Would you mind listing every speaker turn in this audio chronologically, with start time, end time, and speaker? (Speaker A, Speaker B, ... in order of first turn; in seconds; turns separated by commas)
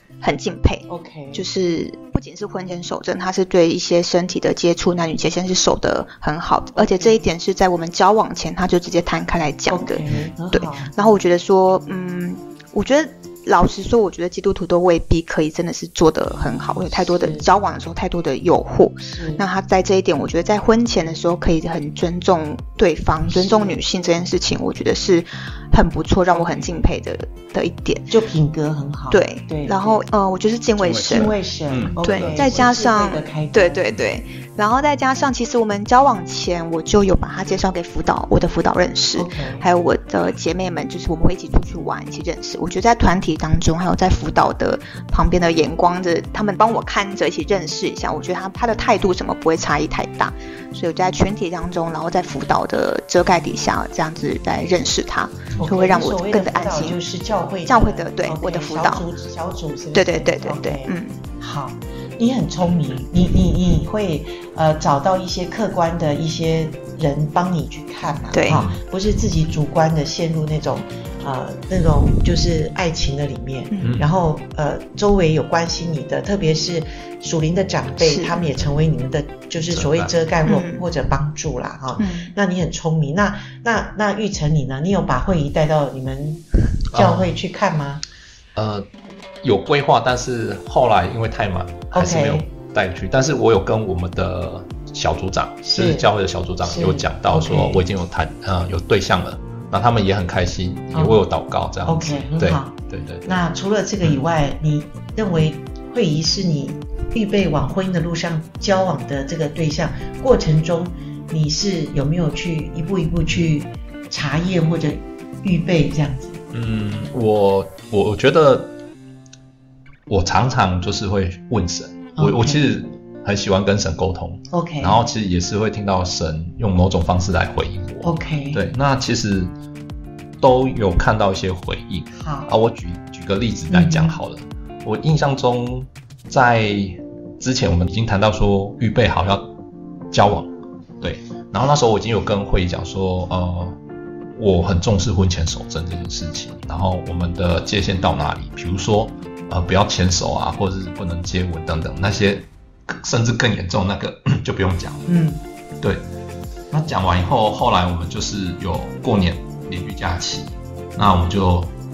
Speaker A: 0.2-28.1, Speaker B: 0.9-1.4, Speaker B: 6.8-7.2, Speaker B: 9.7-11.0, Speaker B: 17.1-17.4, Speaker B: 19.1-19.4, Speaker B: 23.3-23.8, Speaker B: 26.3-26.7, Speaker B: 28.1-30.0, Speaker A: 29.1-31.3, Speaker C: 30.8-32.7, Speaker B: 31.0-33.8, Speaker A: 32.0-57.0, Speaker B: 39.1-39.6, Speaker B: 55.6-88.0, Speaker A: 57.6-59.0, Speaker A: 59.9-61.2, Speaker A: 68.3-68.6, Speaker C: 68.5-68.8, Speaker A: 73.7-74.0, Speaker C: 73.8-74.1, Speaker A: 78.0-78.4, Speaker C: 79.7-80.1, Speaker A: 80.4-80.8, Speaker A: 82.0-82.3, Speaker C: 86.9-87.3, Speaker C: 88.5-88.9, Speaker C: 89.4-103.3, Speaker B: 91.9-92.5, Speaker B: 95.6-96.0, Speaker B: 96.6-97.8, Speaker B: 100.9-101.2, Speaker B: 101.8-116.4, Speaker C: 116.5-118.8, Speaker C: 120.1-129.5, Speaker B: 122.2-122.7, Speaker B: 124.5-125.0, Speaker B: 128.0-128.6, Speaker C: 130.4-139.5, Speaker B: 132.2-132.5, Speaker B: 133.7-134.2, Speaker C: 140.1-143.8, Speaker C: 144.3-155.1, Speaker B: 155.1-155.4, Speaker C: 156.7-161.7